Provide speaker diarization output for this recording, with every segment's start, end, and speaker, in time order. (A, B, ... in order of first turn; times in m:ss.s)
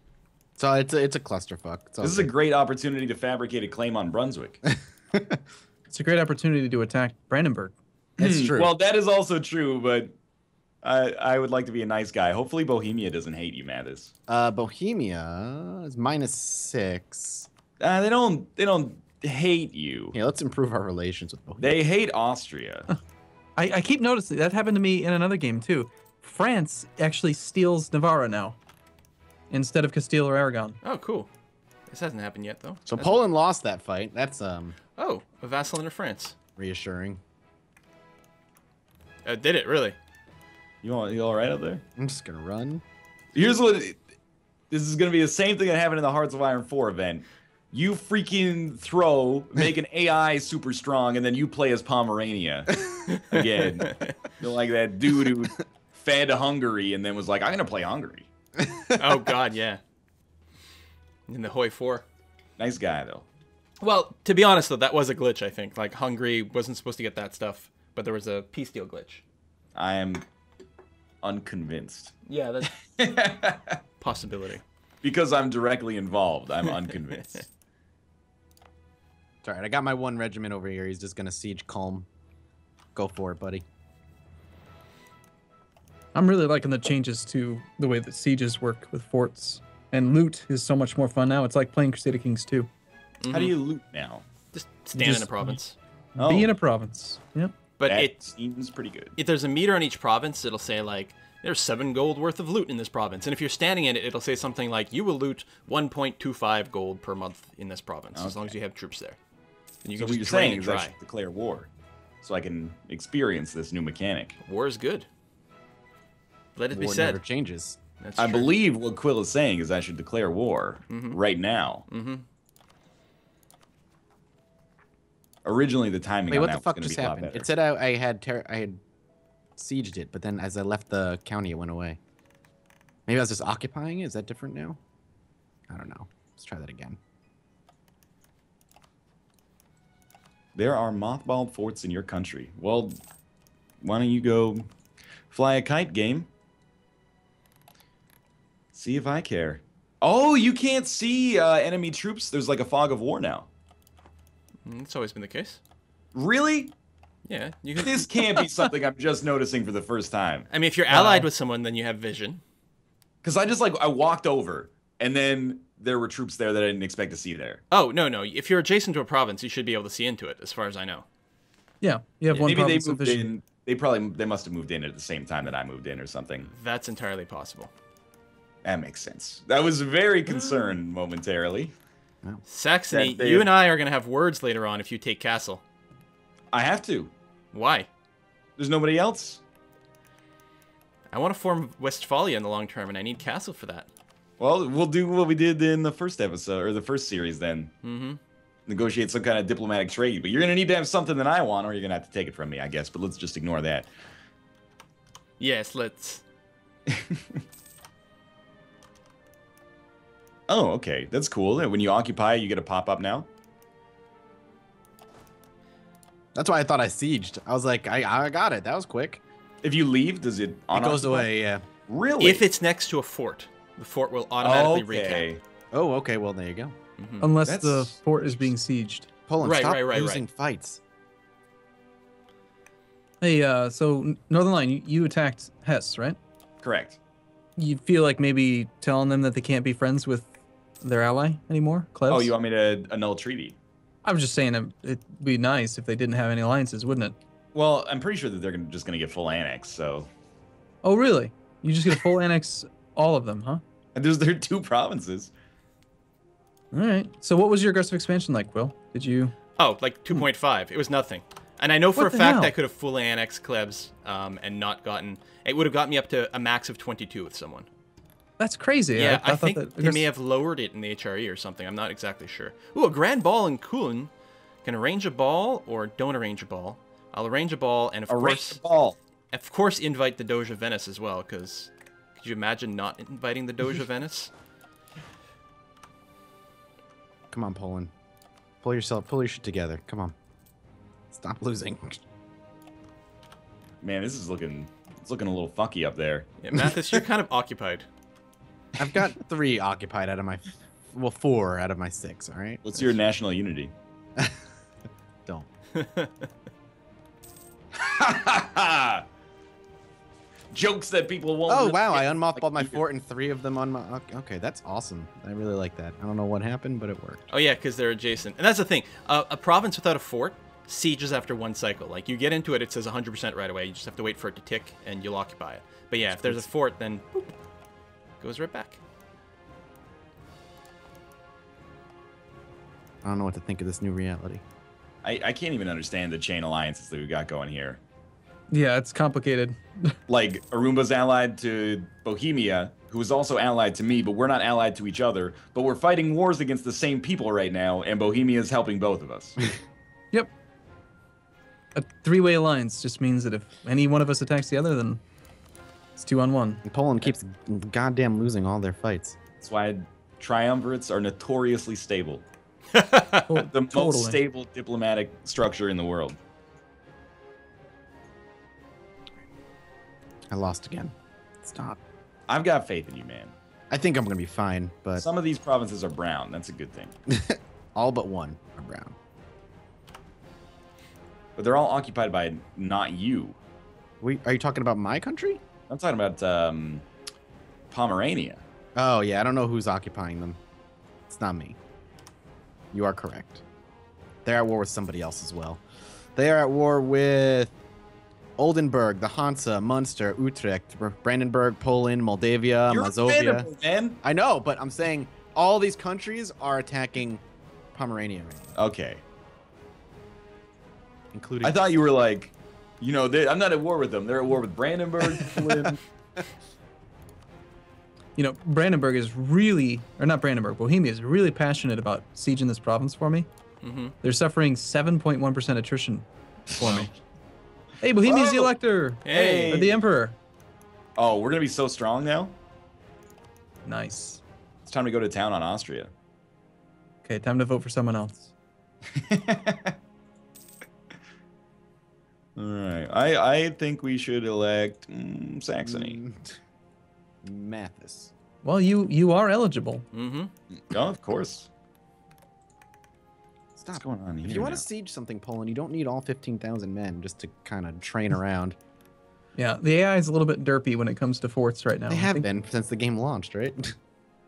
0:00.6-0:02.3 A
0:02.0-0:04.6 B
0:05.9-0:07.8 C
0:08.2-0:08.7 A
0:08.2-0:10.2 B
0:10.8-0:14.1 B
0:14.3-0:17.5 A
0:17.8-0:20.2 B
0:20.1-0:21.8 A
0:21.6-0:22.9 B
0:23.6-0:28.6 C
0:29.5-0:30.8 C
0:30.8-0:31.3 D
0:31.9-0:33.1 D
0:32.9-0:34.8 A
0:35.0-0:36.4 D
0:36.6-0:37.2 A
0:39.2-0:40.0 D
0:40.8-0:41.8 B
0:42.0-0:42.8 A
0:43.3-0:44.0 B
0:44.7-0:52.7 B
0:53.1-0:54.2 D
0:53.3-0:58.3 B
0:59.0-0:59.8 D
1:01.3-1:02.1 D
1:02.6-1:03.3 B
1:03.8-1:09.2 D
1:09.8-1:10.2 B
1:11.2-1:12.2 B
1:12.3-1:12.7 D
1:13.0-1:13.8 B
1:14.0-1:14.6 D
1:15.0-1:17.5 B
1:19.4-1:22.1 A
1:23.0-1:23.6 A
1:26.1-1:32.7 C
1:33.2-1:33.6 D
1:33.3-1:34.2 B
1:34.5-1:35.8 D
1:35.0-1:35.6 C
1:36.2-1:37.5 C
1:36.2-1:36.5 B
1:37.8-1:38.2 D
1:37.9-1:39.2 B
1:39.2-1:49.2 D
1:48.2-1:48.5 B
1:49.8-1:51.0 D
1:50.0-1:51.7 B
1:52.2-1:54.4 B
1:54.4-1:55.1 D
1:56.6-1:57.2 D
1:56.7-1:57.8 A
1:58.0-1:58.5 D
1:58.2-2:01.8 B
2:00.9-2:01.2 D
2:01.9-2:02.3 D
2:05.4-2:07.5 B
2:06.3-2:08.8 A
2:09.6-2:12.0 A
2:13.1-2:14.8 A
2:15.7-2:17.0 A
2:20.6-2:23.0 B
2:23.8-2:24.7 B
2:25.3-2:26.3 B
2:28.7-2:33.5 B
2:34.7-2:35.6 D
2:36.2-2:36.7 B
2:37.3-2:38.1 D
2:37.8-2:40.5 B
2:40.5-2:42.4 D
2:40.9-2:41.3 C
2:43.2-2:47.6 B
2:47.7-2:51.1 D
2:51.8-2:53.3 C
2:52.4-2:56.5 B
2:56.5-2:57.7 D
2:58.6-3:01.7 B
3:00.3-3:00.7 D
3:02.5-3:05.6 D
3:02.9-3:03.5 B
3:06.5-3:07.1 B
3:07.5-3:07.9 D
3:08.6-3:09.4 B
3:11.1-3:13.9 D
3:14.4-3:17.7 B
3:17.8-3:18.2 D
3:18.7-3:23.9 B
3:25.4-3:26.2 D
3:26.9-3:27.4 B
3:30.5-3:33.3 B
3:36.4-3:39.2 A
3:39.6-3:41.3 B
3:40.7-3:41.7 A
3:41.9-3:42.4 B
3:42.2-3:45.3 D
3:44.4-3:45.4 B
3:45.7-3:46.8 A
3:47.0-3:47.3 D
3:47.2-3:49.1 C
3:47.4-3:48.5 B
3:49.3-3:50.8 A
3:49.4-3:50.3 D
3:53.2-3:56.2 C
3:56.6-3:57.0 B
3:57.6-4:02.3 C
4:02.1-4:03.6 B
4:04.0-4:07.2 C
4:07.5-4:10.1 B
4:10.8-4:13.6 C
4:14.0-4:15.3 B
4:16.7-4:19.4 C
4:19.6-4:27.7 D
4:22.0-4:22.6 C
4:28.4-4:30.1 C
4:29.0-4:34.1 D
4:34.6-4:38.6 D
4:38.1-4:39.0 B
4:39.3-4:44.3 D
4:47.3-4:47.9 A
4:48.6-4:50.2 A
4:51.1-4:52.0 A
4:53.8-4:56.3 B
4:56.4-4:57.9 D
4:56.5-4:57.0 A
4:58.8-5:02.6 A
5:02.6-5:03.7 B
5:05.8-5:06.3 D
5:07.8-5:09.0 B
5:10.5-5:12.8 B
5:11.5-5:17.3 A
5:17.3-5:27.3 D
5:26.2-5:26.5 A
5:28.2-5:28.8 D
5:33.0-5:34.4 A
5:35.0-5:37.8 B
5:38.5-5:40.0 C
5:40.1-5:49.4 B
5:51.7-5:55.0 C
5:56.0-5:56.6 C
5:56.6-5:59.2 A
5:59.4-6:02.3 B
6:02.7-6:03.3 D
6:03.3-6:04.2 C
6:03.5-6:06.2 B
6:10.3-6:11.8 A
6:12.3-6:13.4 B
6:13.7-6:15.0 A
6:15.0-6:16.9 B
6:17.1-6:19.0 A
6:21.4-6:23.4 B
6:24.0-6:25.4 A
6:25.7-6:26.9 B
6:27.7-6:28.4 B
6:28.8-6:30.4 A
6:31.1-6:31.6 A
6:32.7-6:33.4 A
6:34.2-6:35.6 A
6:36.2-6:37.6 A
6:38.4-6:43.5 A
6:42.7-6:44.0 B
6:44.0-6:47.2 A
6:47.7-6:48.6 A
6:48.6-6:49.0 B
6:51.1-6:51.6 A
6:51.4-6:55.8 B
6:55.1-6:55.5 A
6:58.2-7:03.3 C
7:03.6-7:03.9 D
7:04.0-7:06.9 C
7:06.6-7:06.9 B
7:07.8-7:10.2 C
7:08.0-7:08.5 B
7:09.0-7:09.4 D
7:09.1-7:09.8 B
7:11.0-7:12.4 B
7:13.6-7:14.2 C
7:14.6-7:15.9 B
7:17.0-7:18.3 C
7:19.0-7:19.7 B
7:22.4-7:26.0 B
7:25.7-7:26.4 A
7:27.2-7:28.1 A
7:28.4-7:29.9 C
7:29.9-7:30.3 D
7:30.6-7:31.5 B
7:33.6-7:38.6 A
7:33.8-7:34.6 B
7:39.4-7:42.3 C
7:41.9-7:43.8 A